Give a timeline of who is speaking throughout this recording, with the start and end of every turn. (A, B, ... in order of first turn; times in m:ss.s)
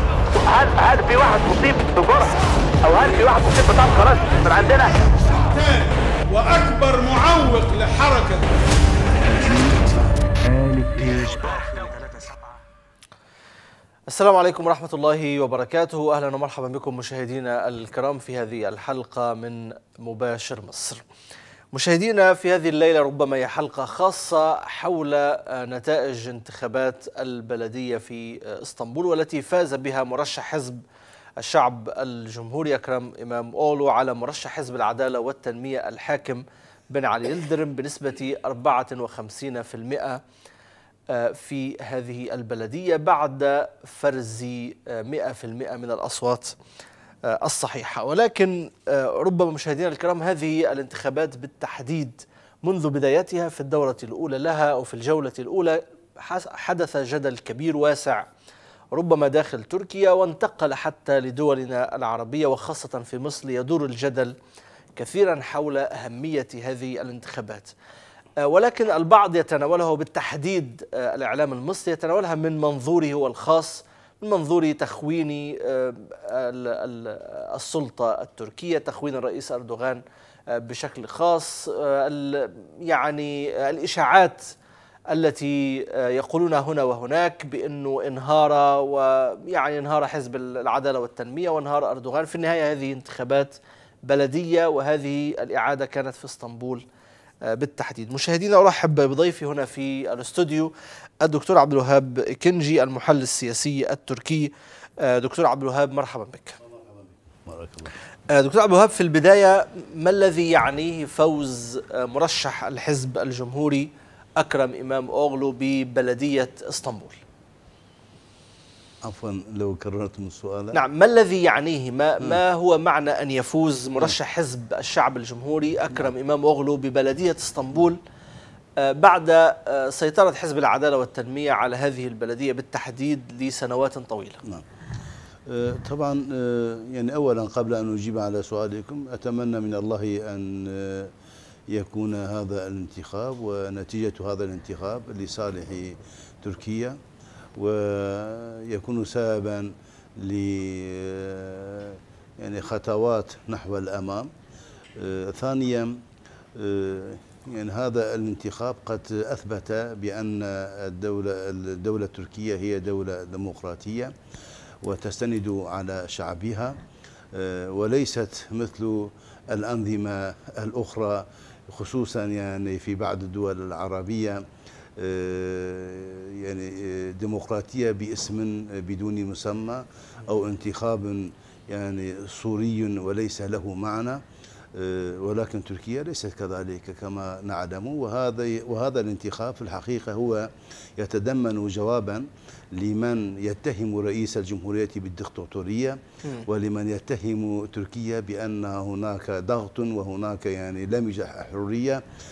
0:00.4-0:04.9 A
0:05.4-0:09.0 B
0:10.5-0:11.0 C
0:11.2-0:12.3 B
0:14.1-0:21.0 D
0:21.7-0:30.8 D
0:31.4-0:40.2 D
0:41.1-0:46.6 D
0:47.3-0:58.2 D
0:58.9-1:04.3 D
1:05.0-1:07.7 D
1:08.4-1:20.0 D
1:20.5-1:24.5 D
1:25.1-1:36.8 D
1:37.4-1:40.7 D
1:41.2-1:46.6 D
1:46.7-1:47.9 C
1:48.3-1:53.9 D
1:54.4-1:57.2 D
1:59.0-2:00.8 C
2:00.7-2:08.0 D
2:08.8-2:14.4 D
2:15.5-2:21.1 C
2:21.7-2:27.0 C
2:27.6-2:34.3 C
2:35.0-2:36.0 C
2:36.6-2:44.1 C
2:44.8-2:46.8 C
2:47.3-2:54.5 C
2:55.0-3:04.2 C
3:04.7-3:22.0 C